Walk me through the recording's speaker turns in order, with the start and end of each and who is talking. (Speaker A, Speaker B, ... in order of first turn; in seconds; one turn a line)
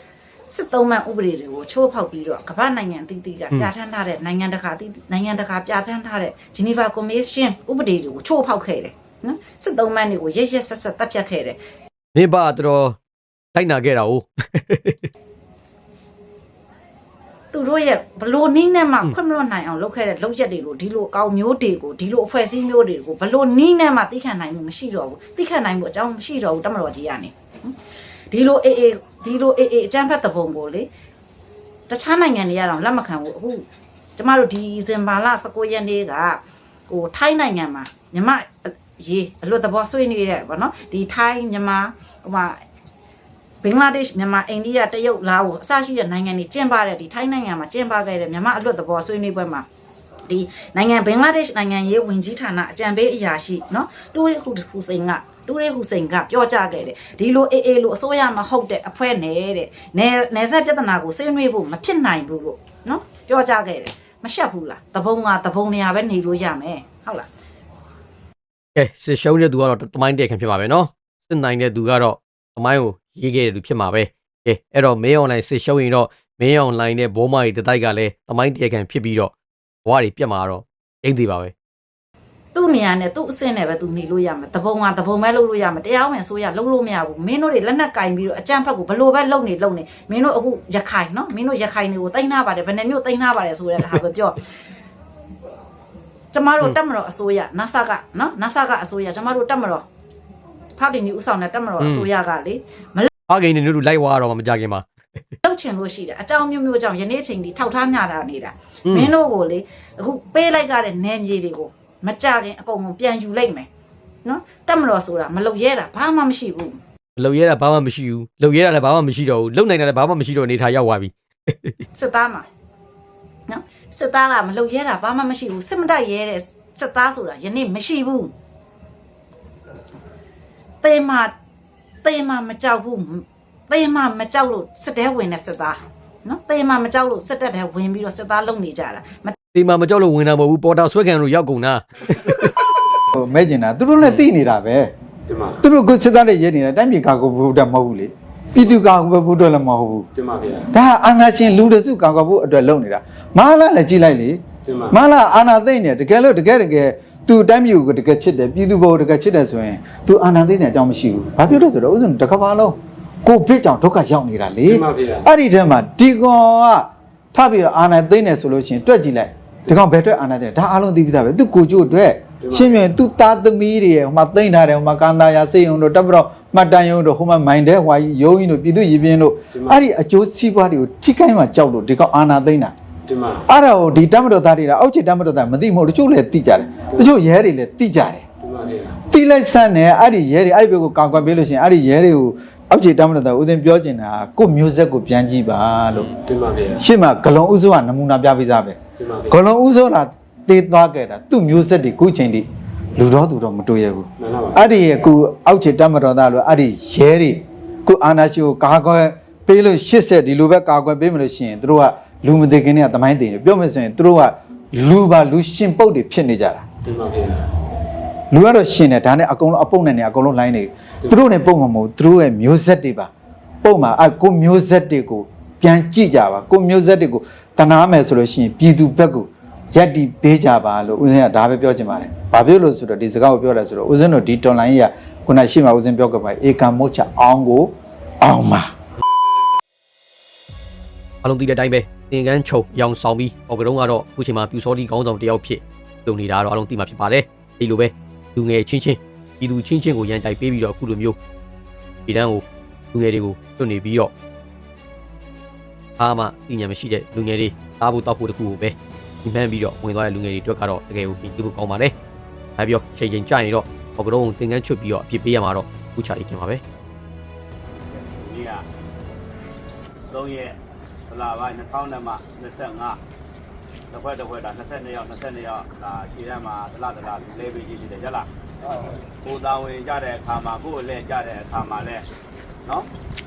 Speaker A: 0.5-11.6
Speaker B: 12.2-13.0
Speaker B: 13.5-15.1
Speaker A: 17.5-27.7
Speaker A: 28.3-30.9
Speaker A: 31.9-33.6
Speaker A: 34.2-42.6
Speaker A: 43.6-49.7
Speaker A: 50.3-67.3
Speaker B: 68.8-79.3
Speaker B: 79.8-81.5
Speaker A: 82.5-94.5
Speaker A: 96.3-99.8
Speaker A: 100.8-103.1
Speaker B: 101.8-102.1
Speaker B: 103.3-104.9
Speaker A: 105.4-113.7
Speaker B: 108.9-109.1
Speaker A: 114.2-116.8
Speaker B: 117.2-121.8
Speaker A: 122.0-122.5
Speaker A: 123.5-128.3
Speaker A: 130.8-131.3
Speaker A: 132.0-139.4
Speaker B: 139.5-142.6
Speaker C: 143.1-144.9
Speaker C: 145.6-150.1
Speaker D: 150.2-150.6
Speaker C: 150.7-182.7
Speaker D: 164.7-165.2
Speaker D: 183.1-183.4
Speaker C: 183.5-188.2
Speaker D: 188.4-188.9
Speaker C: 189.1-196.2
Speaker D: 196.3-196.7
Speaker C: 196.8-216.7
Speaker D: 216.9-217.3
Speaker C: 218.3-223.1
Speaker C: 223.6-238.7
Speaker B: 241.2-251.2
Speaker B: 252.1-254.1
Speaker B: 256.0-262.0
Speaker B: 262.6-266.6
Speaker E: 267.9-268.6
Speaker E: 270.1-270.6
Speaker E: 271.1-273.0
Speaker E: 273.9-278.3
Speaker E: 279.2-282.1